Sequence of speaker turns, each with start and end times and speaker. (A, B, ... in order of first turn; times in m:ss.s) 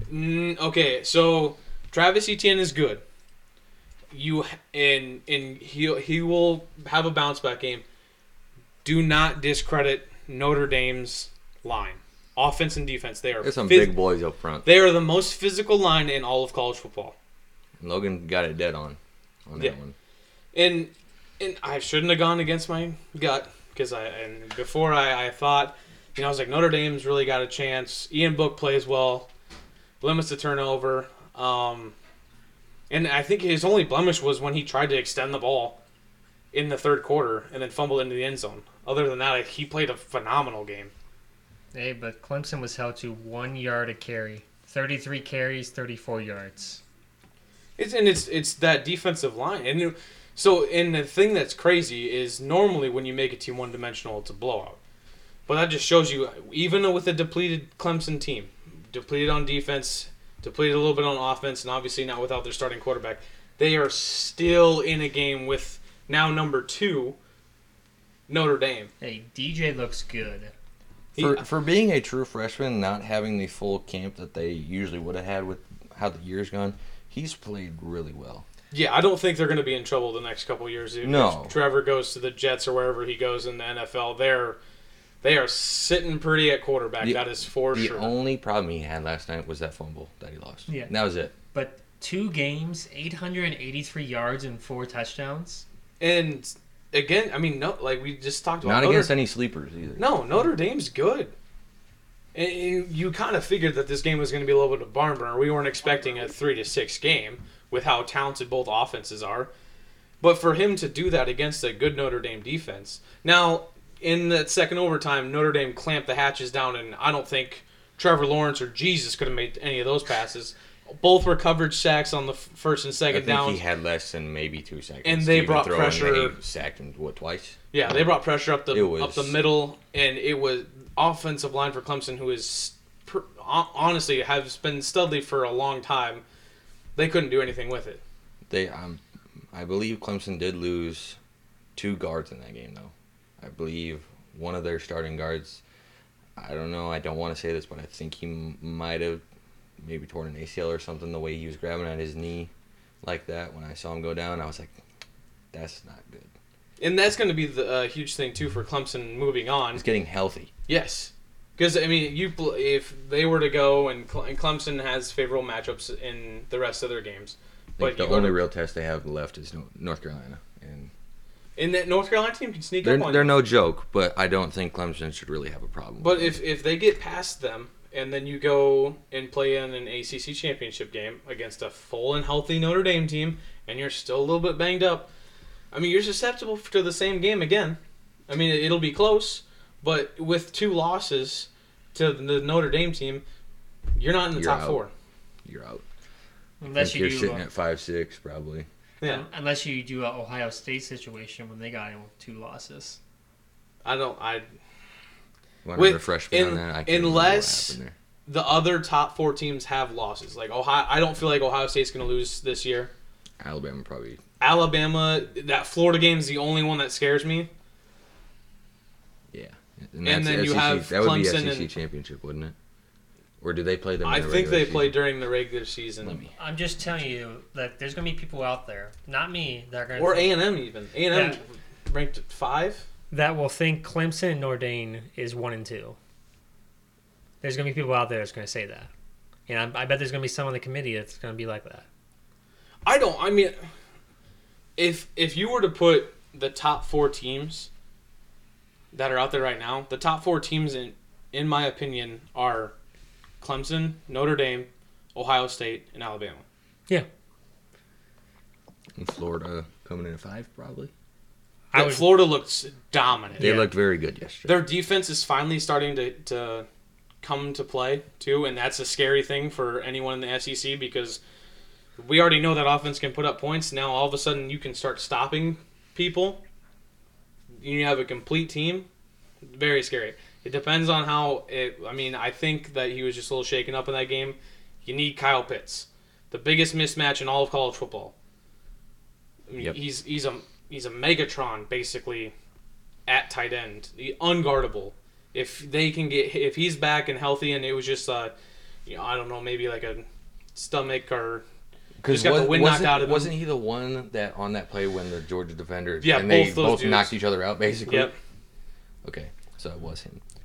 0:00.1-0:03.0 A
0:04.1-0:07.8 A
0:08.8-0:14.0 A
0:13.4-0:14.7 B
0:14.6-0:17.2 A
0:17.8-0:20.0 B
0:20.5-0:29.3 A
0:30.0-0:31.9 A
0:32.9-0:35.8 A
0:36.5-0:40.9 A
0:41.7-0:46.8 C
0:47.8-0:54.8 A
0:55.5-1:07.2 A
1:08.3-1:08.9 A
1:09.0-1:10.5 C
1:11.2-1:11.4 A
1:11.2-1:18.5 B
1:18.7-1:24.6 A
1:21.0-1:21.5 B
1:25.2-1:28.1 A
1:27.0-1:31.3 B
1:30.7-1:30.9 C
1:31.5-1:35.6 C
1:36.0-1:39.1 A
1:38.6-1:40.1 B
1:40.0-1:41.3 A
1:42.3-1:49.5 A
1:50.2-2:03.6 A
2:03.1-2:08.1 B
2:05.0-2:06.4 A
2:07.7-2:16.2 A
2:08.7-2:09.4 B
2:17.0-2:18.0 A
2:18.5-2:19.0 B
2:19.5-2:21.2 B
2:21.8-2:25.6 B
2:26.4-2:29.2 B
2:29.8-2:32.5 B
2:33.0-2:34.8 B
2:35.5-2:36.3 B
2:36.8-2:39.8 A
2:39.7-2:40.5 B
2:40.7-2:48.4 A
2:47.8-2:50.9 B
2:51.6-2:53.4 A
2:52.8-2:56.4 B
2:56.0-3:05.1 A
3:05.7-3:13.2 A
3:14.0-3:14.9 A
3:14.3-3:14.8 B
3:15.4-3:15.8 B
3:16.6-3:17.4 C
3:16.7-3:18.7 B
3:19.0-3:23.0 C
3:23.8-3:24.5 A
3:25.6-3:28.0 B
3:25.8-3:27.8 A
3:28.3-3:32.9 A
3:33.4-3:34.2 B
3:34.4-3:37.5 A
3:39.3-3:42.6 B
3:40.0-3:41.7 A
3:43.4-3:45.0 B
3:44.0-3:46.2 A
3:46.0-3:46.3 B
3:46.4-3:50.4 C
3:50.0-3:52.8 A
3:51.1-3:51.4 C
3:53.1-3:56.0 C
3:57.4-3:58.9 C
3:59.5-4:01.8 C
4:02.8-4:03.6 A
4:04.8-4:07.7 A
4:08.9-4:12.8 A
4:13.4-4:16.4 A
4:19.0-4:20.9 B
4:21.7-4:22.2 C
4:21.7-4:23.6 A
4:23.4-4:23.7 C
4:23.4-4:24.6 B
4:24.4-4:26.7 A
4:27.2-4:31.2 A
4:32.0-4:36.4 A
4:37.6-4:38.9 A
4:39.5-4:48.1 A
4:49.5-4:52.3 A
4:53.1-4:58.3 A
4:58.9-5:01.4 A
5:02.0-5:08.1 B
5:02.1-5:03.3 A
5:06.0-5:07.2 A
5:07.9-5:08.2 A
5:09.0-5:10.2 B